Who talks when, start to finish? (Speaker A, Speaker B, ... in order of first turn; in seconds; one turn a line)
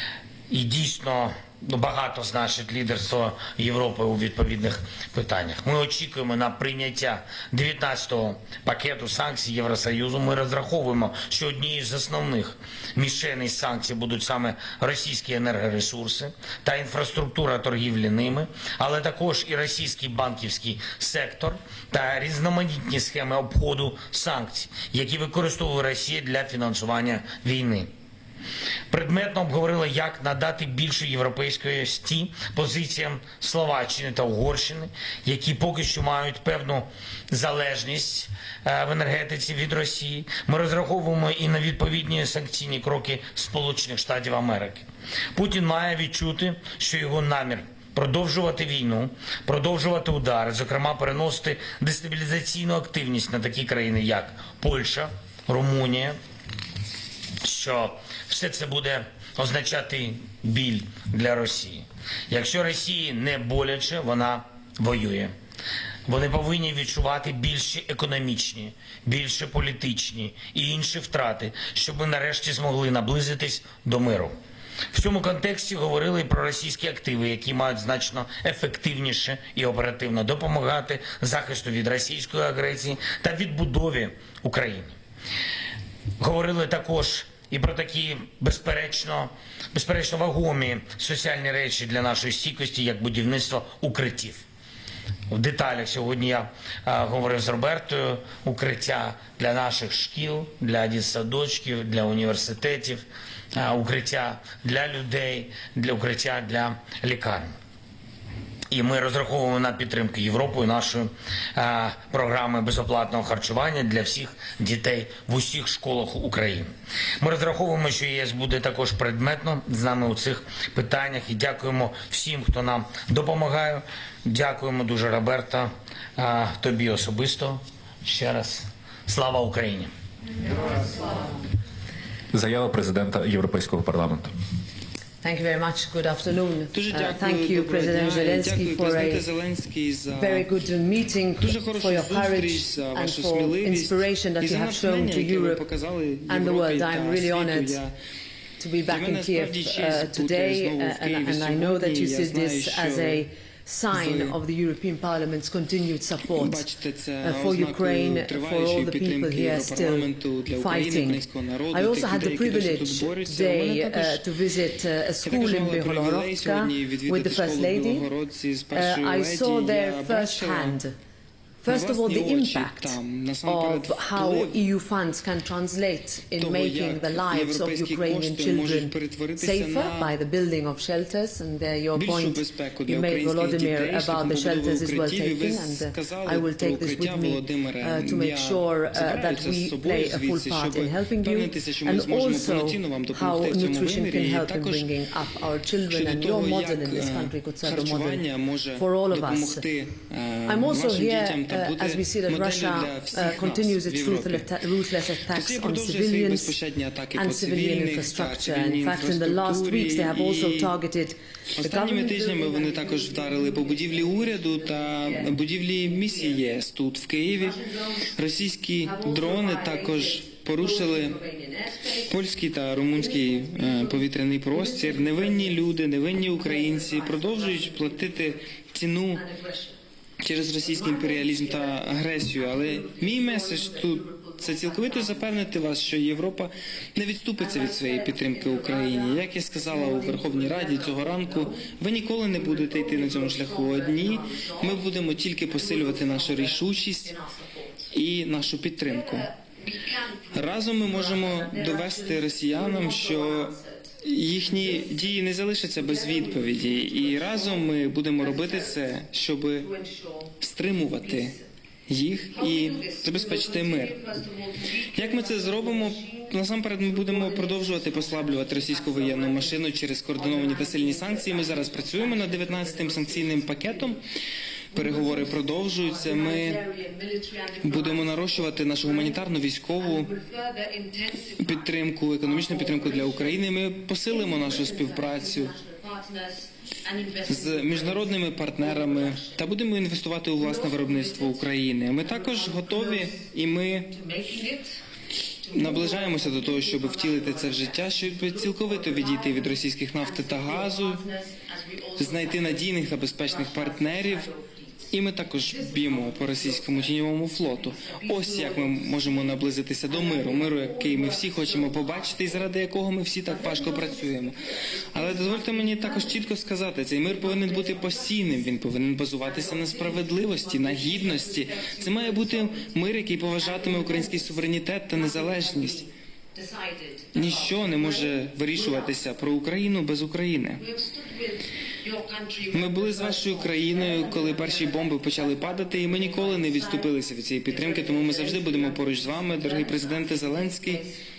Speaker A: 0.5-27.9
Speaker A: 28.9-56.2
Speaker A: 57.4-65.3
Speaker A: 66.0-74.3
Speaker A: 74.9-85.0
Speaker A: 86.2-94.4
Speaker A: 95.3-107.5
Speaker A: 108.7-129.9
Speaker B: 132.3-134.3
Speaker C: 135.2-139.2
Speaker D: 136.7-140.5
Speaker C: 140.2-145.6
Speaker D: 141.4-147.9
Speaker C: 146.3-147.8
Speaker C: 148.6-156.7
Speaker D: 148.9-153.2
Speaker D: 153.9-154.3
Speaker D: 156.3-164.2
Speaker C: 157.2-168.1
Speaker D: 165.2-170.8
Speaker C: 168.7-170.9
Speaker C: 171.6-199.6
Speaker D: 171.7-174.6
Speaker D: 176.3-180.1
Speaker D: 181.9-194.9
Speaker D: 195.9-204.5
Speaker C: 200.4-206.5
Speaker D: 205.3-210.7
Speaker C: 207.1-216.5
Speaker D: 211.6-217.6
Speaker C: 217.4-218.1
Speaker D: 218.1-221.2
Speaker C: 218.8-222.2
Speaker D: 222.1-229.2
Speaker C: 222.9-225.7
Speaker C: 226.4-228.4
Speaker C: 229.1-229.8
Speaker D: 230.2-247.1
Speaker C: 230.6-236.2
Speaker C: 237.4-241.7
Speaker C: 242.3-247.9
Speaker D: 247.9-249.3
Speaker C: 248.8-253.9
Speaker D: 250.3-259.7
Speaker C: 254.4-255.1
Speaker C: 255.7-258.9
Speaker C: 259.6-261.4
Speaker D: 260.4-261.3
Speaker D: 261.9-264.0
Speaker C: 262.3-274.0
Speaker D: 264.9-274.0
Speaker D: 274.7-276.6
Speaker C: 274.7-283.5
Speaker D: 277.6-280.1
Speaker D: 281.4-285.5
Speaker C: 284.0-289.5
Speaker D: 287.3-293.9
Speaker C: 290.4-293.3
Speaker C: 293.8-294.8
Speaker C: 295.4-312.5
Speaker D: 295.5-301.0
Speaker D: 302.0-304.3
Speaker D: 304.9-325.8
Speaker C: 313.3-316.3
Speaker C: 317.1-318.5
Speaker C: 319.2-329.0
Speaker D: 327.1-330.6
Speaker C: 330.6-341.0
Speaker D: 332.5-340.8